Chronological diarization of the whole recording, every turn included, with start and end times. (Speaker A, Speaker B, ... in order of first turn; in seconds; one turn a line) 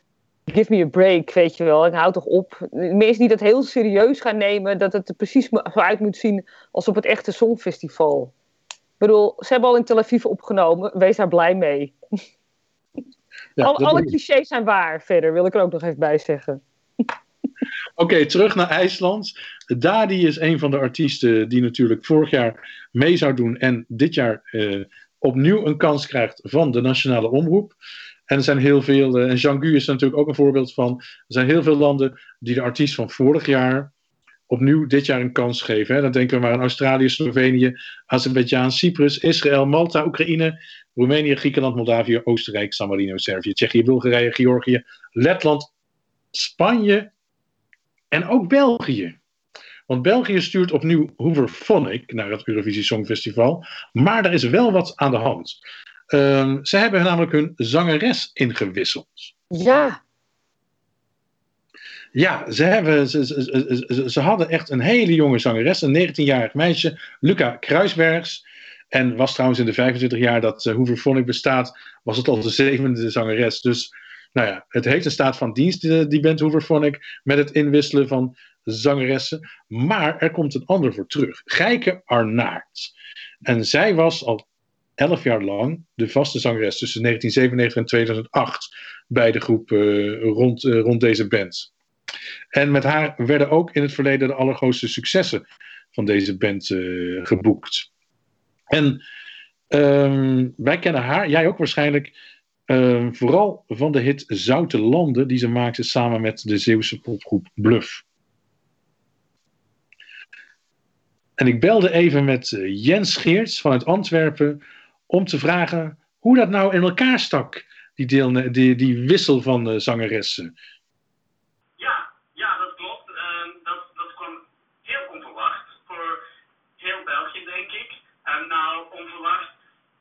Speaker A: 0.5-8.3
Speaker A: 9.0-11.9
Speaker B: 13.6-14.1
Speaker A: 13.6-16.6
Speaker B: 18.0-27.8
Speaker B: 28.3-33.9
Speaker B: 34.5-45.7
Speaker B: 46.3-47.1
Speaker B: 48.1-49.2
Speaker B: 49.9-55.6
Speaker B: 56.1-59.3
Speaker A: 59.5-60.0
Speaker B: 62.1-82.9
Speaker B: 83.4-84.4
Speaker B: 85.0-91.7
Speaker B: 92.5-95.4
Speaker B: 95.9-97.9
Speaker B: 98.7-99.0
Speaker B: 99.7-102.1
Speaker B: 102.7-108.0
Speaker B: 111.4-120.5
Speaker C: 121.8-126.2
Speaker C: 126.8-129.5